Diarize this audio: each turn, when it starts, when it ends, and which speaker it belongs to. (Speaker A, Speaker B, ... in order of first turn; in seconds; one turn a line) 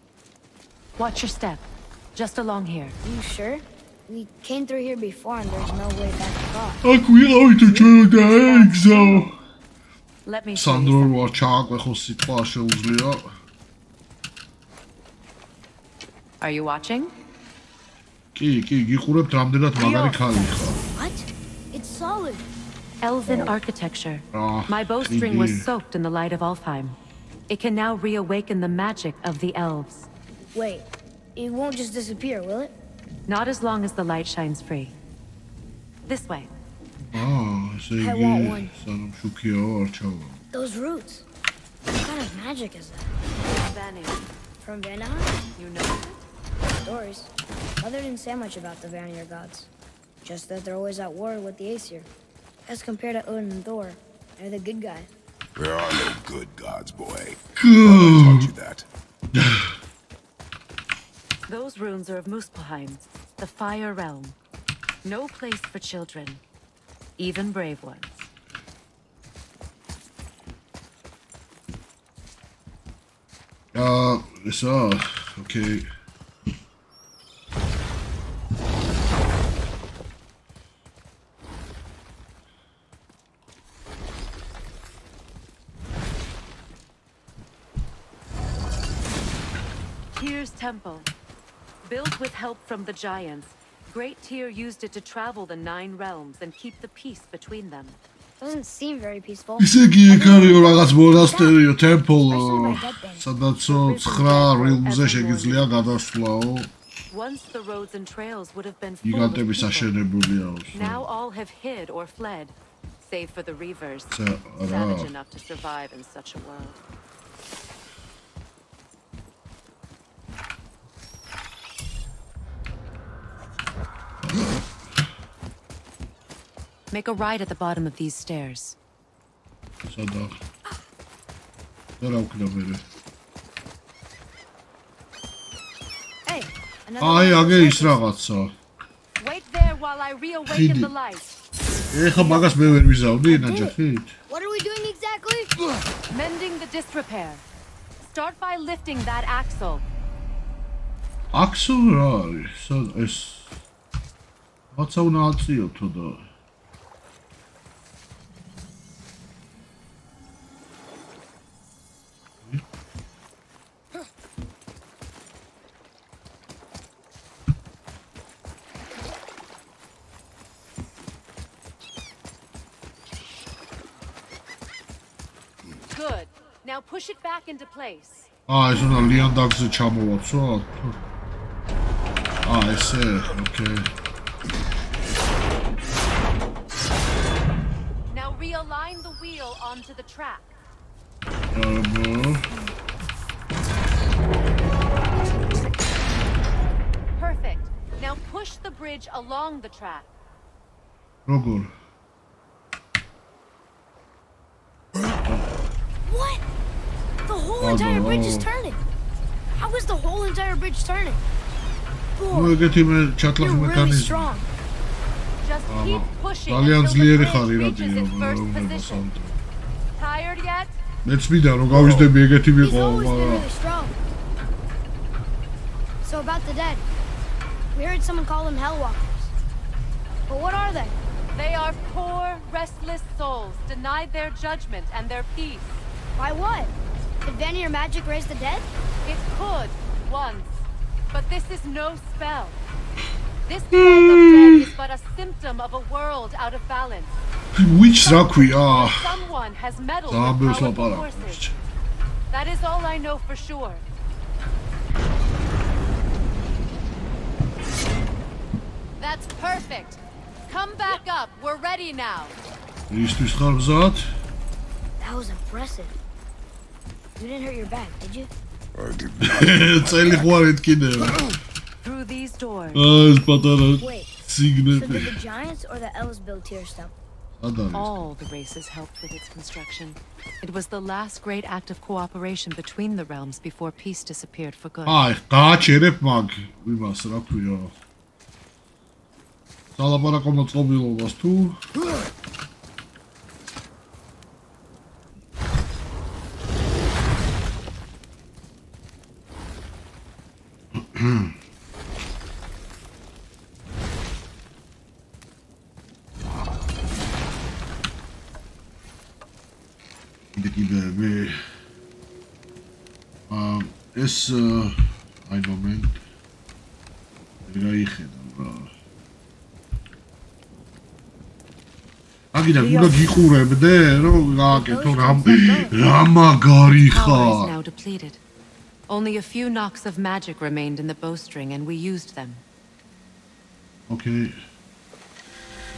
Speaker A: 1.0-3.0
Speaker B: 3.0-6.8
Speaker C: 6.8-9.3
Speaker B: 7.7-9.0
Speaker A: 8.1-9.3
Speaker A: 10.2-11.3
Speaker C: 10.5-13.3
Speaker A: 16.4-17.1
Speaker C: 18.3-20.8
Speaker A: 19.7-20.6
Speaker B: 20.9-22.4
Speaker A: 23.0-27.0
Speaker C: 23.2-23.5
Speaker C: 24.3-25.7
Speaker A: 27.5-30.1
Speaker B: 30.5-32.7
Speaker A: 33.3-34.9
Speaker A: 36.0-36.5
Speaker C: 37.0-40.4
Speaker B: 38.0-38.7
Speaker B: 40.5-41.2
Speaker B: 42.0-43.1
Speaker A: 43.5-44.3
Speaker B: 44.6-45.4
Speaker A: 45.5-46.2
Speaker B: 46.8-49.7
Speaker B: 50.2-52.1
Speaker B: 52.6-55.1
Speaker D: 55.5-58.9
Speaker C: 57.6-58.5
Speaker C: 59.3-59.8
Speaker A: 61.5-64.3
Speaker A: 65.0-66.4
Speaker A: 67.2-68.3
Speaker C: 73.7-75.9
Speaker A: 90.1-91.1
Speaker A: 91.8-98.0
Speaker B: 98.4-101.6
Speaker C: 99.6-106.7
Speaker B: 102.3-103.3
Speaker A: 103.7-105.9
Speaker A: 107.1-109.9
Speaker C: 109.0-111.1
Speaker A: 110.7-116.8
Speaker C: 114.1-115.1
Speaker C: 124.2-124.7
Speaker A: 126.9-128.8
Speaker C: 129.8-130.3
Speaker C: 132.0-132.8
Speaker B: 136.2-138.0
Speaker C: 137.0-138.5
Speaker A: 139.2-141.4
Speaker C: 140.5-140.9
Speaker C: 141.9-144.1
Speaker B: 142.2-142.6
Speaker B: 143.2-143.8
Speaker B: 144.3-145.5
Speaker A: 146.1-147.4
Speaker A: 148.0-149.8
Speaker C: 151.3-153.6
Speaker C: 154.7-156.2
Speaker A: 175.9-178.3
Speaker C: 178.5-181.0
Speaker C: 182.4-183.9
Speaker A: 188.1-190.6
Speaker C: 191.5-192.5
Speaker A: 197.1-200.1
Speaker C: 201.2-201.7
Speaker B: 206.0-206.4
Speaker B: 207.3-208.8
Speaker C: 207.6-208.5
Speaker B: 209.5-211.2
Speaker B: 212.2-212.6
Speaker C: 212.3-214.3
Speaker B: 213.4-214.5
Speaker A: 215.4-219.1
Speaker C: 215.7-219.4
Speaker A: 219.9-220.8
Speaker C: 221.0-223.5
Speaker D: 221.7-222.1
Speaker B: 222.6-223.9
Speaker B: 226.0-226.9
Speaker B: 227.7-229.3
Speaker B: 230.3-230.9
Speaker A: 231.3-235.8
Speaker B: 236.2-238.7
Speaker A: 239.0-242.6
Speaker A: 243.4-247.2
Speaker C: 243.7-244.7
Speaker C: 247.5-249.2
Speaker A: 248.0-251.5
Speaker C: 250.1-251.5
Speaker A: 252.3-253.8
Speaker A: 259.0-262.4
Speaker C: 262.9-264.1
Speaker B: 265.0-265.9
Speaker B: 267.2-268.3
Speaker D: 268.7-270.2
Speaker C: 269.2-271.2
Speaker A: 271.8-272.9
Speaker C: 272.7-275.2
Speaker B: 273.8-274.1
Speaker B: 274.7-276.9
Speaker C: 277.4-278.1
Speaker A: 277.7-285.0
Speaker C: 284.9-287.7
Speaker C: 289.8-291.6
Speaker C: 300.7-301.4
Speaker C: 310.3-311.4
Speaker C: 313.3-316.0
Speaker C: 317.4-318.7
Speaker C: 322.3-327.6
Speaker B: 322.6-322.9
Speaker B: 324.5-325.8
Speaker A: 326.7-328.2
Speaker A: 328.9-332.4
Speaker C: 333.9-334.4